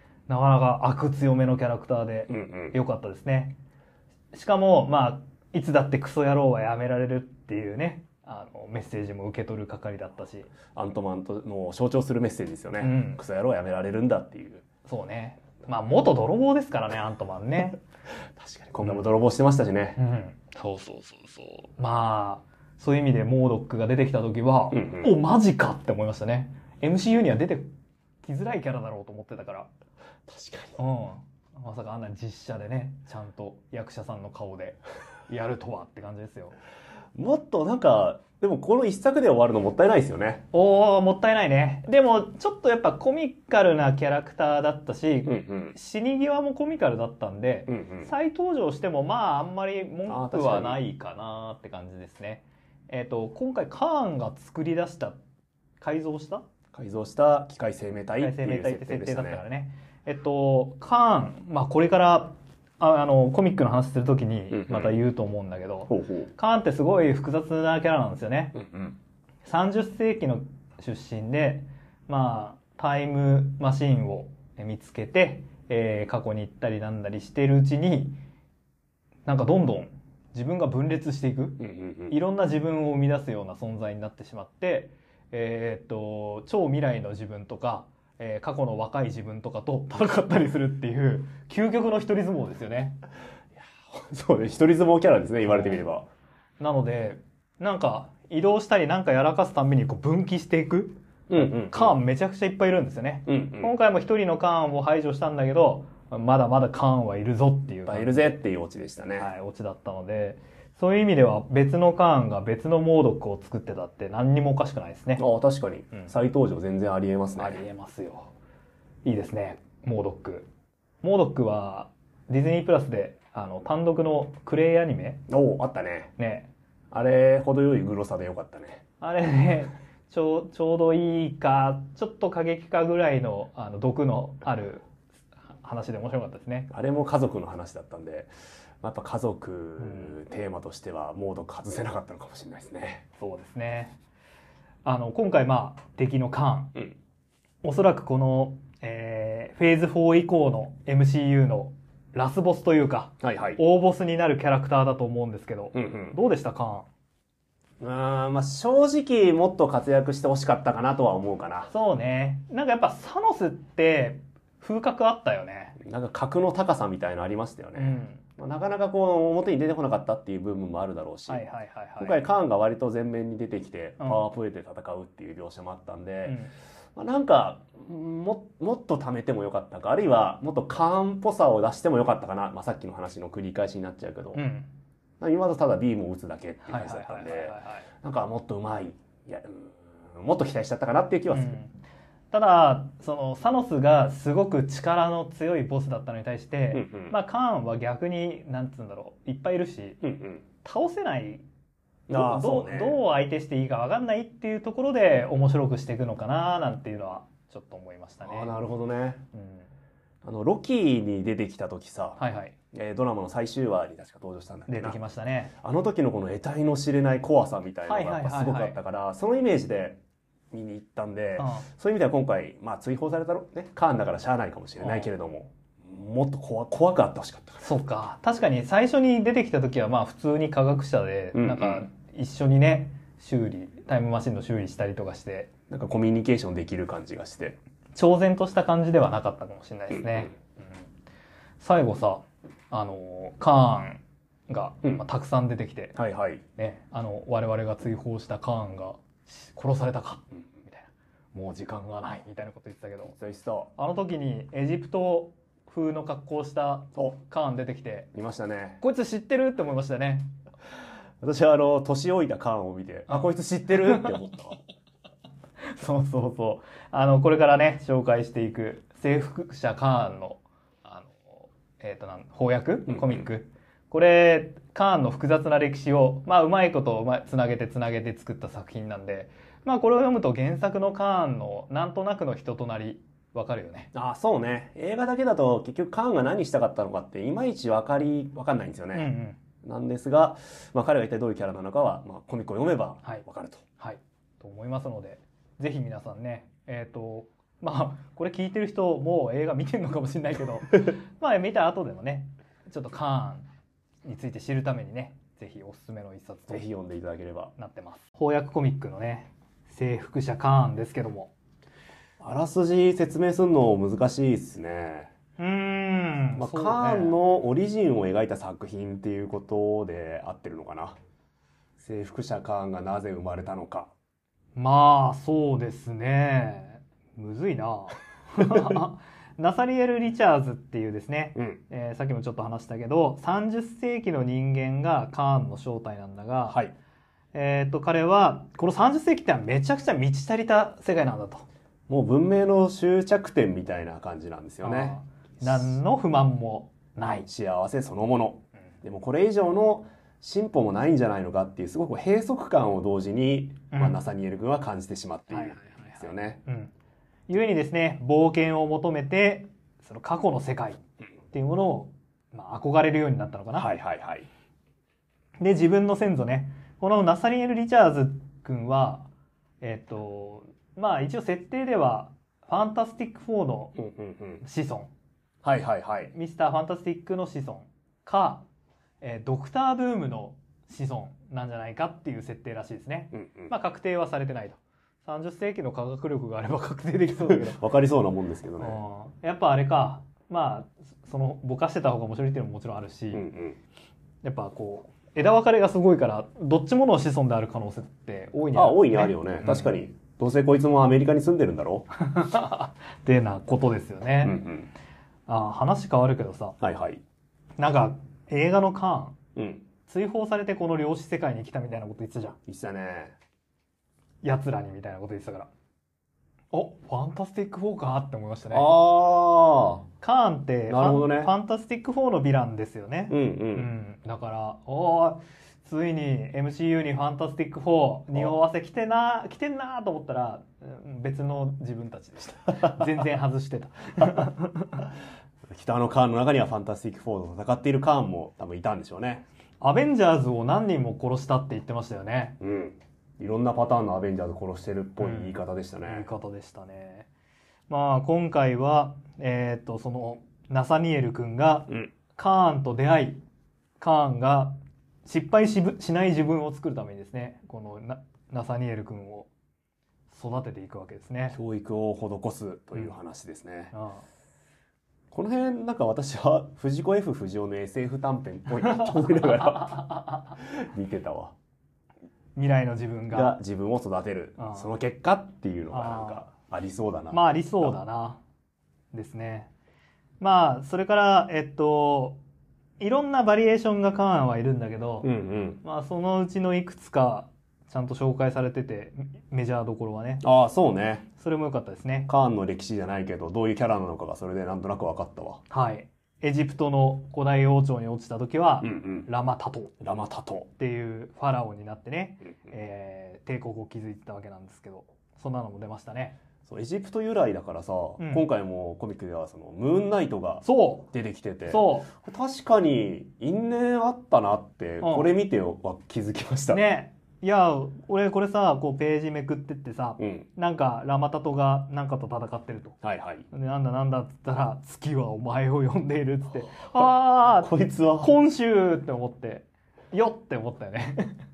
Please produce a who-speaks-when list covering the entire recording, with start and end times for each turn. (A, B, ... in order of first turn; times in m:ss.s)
0:00.3-0:03.6 A
0:02.3-0:02.8 B
0:04.3-0:10.5 A
0:10.7-0:14.6 B
0:12.8-0:13.2 A
0:14.9-0:17.8 A
0:18.4-0:20.0 B
0:20.0-0:27.7 A
0:24.7-0:25.1 B
0:28.2-0:29.7 A
0:30.3-0:30.8 B
0:30.8-0:36.6 A
0:37.2-0:40.4 B
0:40.5-0:55.2 A
0:45.3-0:45.8 B
0:47.7-0:48.1 B
0:50.1-0:50.8 B
0:55.8-0:56.4 A
0:56.7-0:59.4 B
0:58.2-1:08.6 A
1:04.5-1:05.0 B
1:05.9-1:06.3 B
1:08.6-1:09.0 B
1:09.4-1:18.2 A
1:19.3-1:33.0 A
1:21.6-1:22.2 B
1:33.6-1:36.1 B
1:35.5-1:35.8 A
1:36.6-1:48.3 A
1:41.3-1:42.0 B
1:43.3-1:43.7 B
1:47.9-1:49.3 B
1:49.2-1:55.2 A
1:55.2-1:57.6 B
1:57.4-1:58.3 A
1:59.0-2:00.5 A
2:01.0-2:05.3 A
2:05.3-2:06.1 B
2:06.2-2:06.5 A
2:06.9-2:08.8 B
2:09.0-2:14.8 A
2:15.6-2:16.7 A
2:16.7-2:18.3 B
2:18.8-2:23.0 B
2:19.8-2:20.2 A
2:23.2-2:24.0 A
2:24.8-2:26.8 A
2:27.6-2:36.9 A
2:33.2-2:33.6 B
2:35.7-2:36.2 B
2:37.8-2:41.7 B
2:41.7-2:45.8 A
2:45.8-2:51.4 B
2:47.8-2:48.2 A
2:51.3-2:52.2 A
2:52.0-2:56.4 B
2:54.0-2:54.2 A
2:56.2-2:56.5 A
2:57.0-3:04.4 B
3:04.4-3:04.7 A
3:05.2-3:11.6 B
3:06.6-3:07.9 A
3:11.3-3:11.8 A
3:12.3-3:20.0 A
3:16.7-3:17.1 B
3:20.0-3:20.4 B
3:20.6-3:21.4 A
3:22.1-3:23.0 B
3:22.1-3:28.6 A
3:28.2-3:29.2 B
3:29.3-3:29.7 A
3:30.2-3:32.2 B
3:32.2-3:32.6 A
3:32.7-3:35.0 B
3:34.7-3:35.5 A
3:35.6-3:40.0 B
3:37.9-3:38.8 A
3:40.5-3:47.7 B
3:41.4-3:41.7 A
3:44.8-3:45.1 A
3:47.6-3:55.5 A
3:51.3-3:51.9 B
3:55.7-3:57.6 B
3:58.0-4:00.7 A
4:01.6-4:06.0 A
4:06.0-4:06.4 B
4:06.6-4:13.2 A
4:13.1-4:13.7 B
4:13.8-4:18.1 A
4:18.1-4:18.8 B
4:18.8-4:20.3 A
4:21.2-4:24.6 B
4:23.8-4:24.2 A
4:25.6-4:43.9 A
4:32.9-4:33.3 B
4:43.9-4:49.1 B
4:48.9-4:49.4 A
4:49.6-4:53.6 B
4:53.8-5:03.5 A
5:04.0-5:06.7 A
5:06.5-5:07.5 B
5:07.6-5:11.3 A
5:12.2-5:15.1 B
5:15.4-5:17.2 A
5:16.4-5:21.0 B
5:21.8-5:23.9 B
5:24.6-5:36.6 A
5:36.5-5:36.7 B
5:37.3-5:41.4 A
5:41.9-5:45.8 B
5:44.6-5:47.3 A
5:47.3-5:56.4 B
5:53.7-5:54.0 A
5:55.3-5:56.7 A
5:57.3-6:03.7 A
6:03.6-6:04.3 B
6:05.4-6:09.1 A
6:09.6-6:13.8 A
6:13.8-6:14.4 B
6:14.4-6:14.9 A
6:15.4-6:16.1 B
6:16.1-6:18.4 A
6:19.0-6:27.6 A
6:23.1-6:23.5 B
6:27.2-6:28.8 B
6:28.6-6:33.3 A
6:33.1-6:33.6 B
6:34.2-6:39.7 A
6:38.5-6:41.9 B
6:42.0-6:44.4 A
6:44.2-6:44.7 B
6:45.3-6:46.6 A
6:46.6-6:47.0 B
6:47.6-6:49.2 A
6:49.4-6:49.7 B
6:49.9-6:52.4 A
6:52.5-6:53.2 B
6:54.2-6:55.5 A
6:56.5-6:58.7 A
6:58.5-6:59.9 B
7:00.0-7:14.9 A
7:00.7-7:01.3 B
7:03.1-7:03.7 B
7:15.5-7:19.3 B
7:19.6-7:22.4 A
7:22.4-7:26.1 B
7:25.0-7:27.1 A
7:27.7-7:33.2 A
7:33.8-7:39.3 A
7:40.1-7:41.4 A
7:41.3-7:43.7 B
7:43.7-7:44.0 A
7:45.1-7:51.4 B
7:48.6-7:50.4 A
7:52.4-7:53.4 A
7:53.1-7:57.8 B
7:54.4-7:54.7 A
7:55.7-7:56.3 A
7:57.1-7:58.2 A
7:58.9-7:59.5 A
8:00.2-8:02.2 A
8:02.8-8:05.1 A
8:05.0-8:05.6 B
8:05.6-8:10.2 A
8:10.2-8:11.1 B
8:11.2-8:12.1 A
8:12.1-8:15.4 B
8:15.5-8:19.7 A
8:18.6-8:19.1 B
8:19.8-8:20.5 B
8:20.6-8:26.2 A
8:26.5-8:36.6 B
8:28.0-8:28.2 A
8:30.4-8:30.9 A
8:31.5-8:31.9 A
8:34.8-8:35.1 A
8:36.5-8:42.8 A
8:40.0-8:40.3 B
8:42.8-8:43.3 B
8:43.3-8:51.2 A
8:46.8-8:48.1 B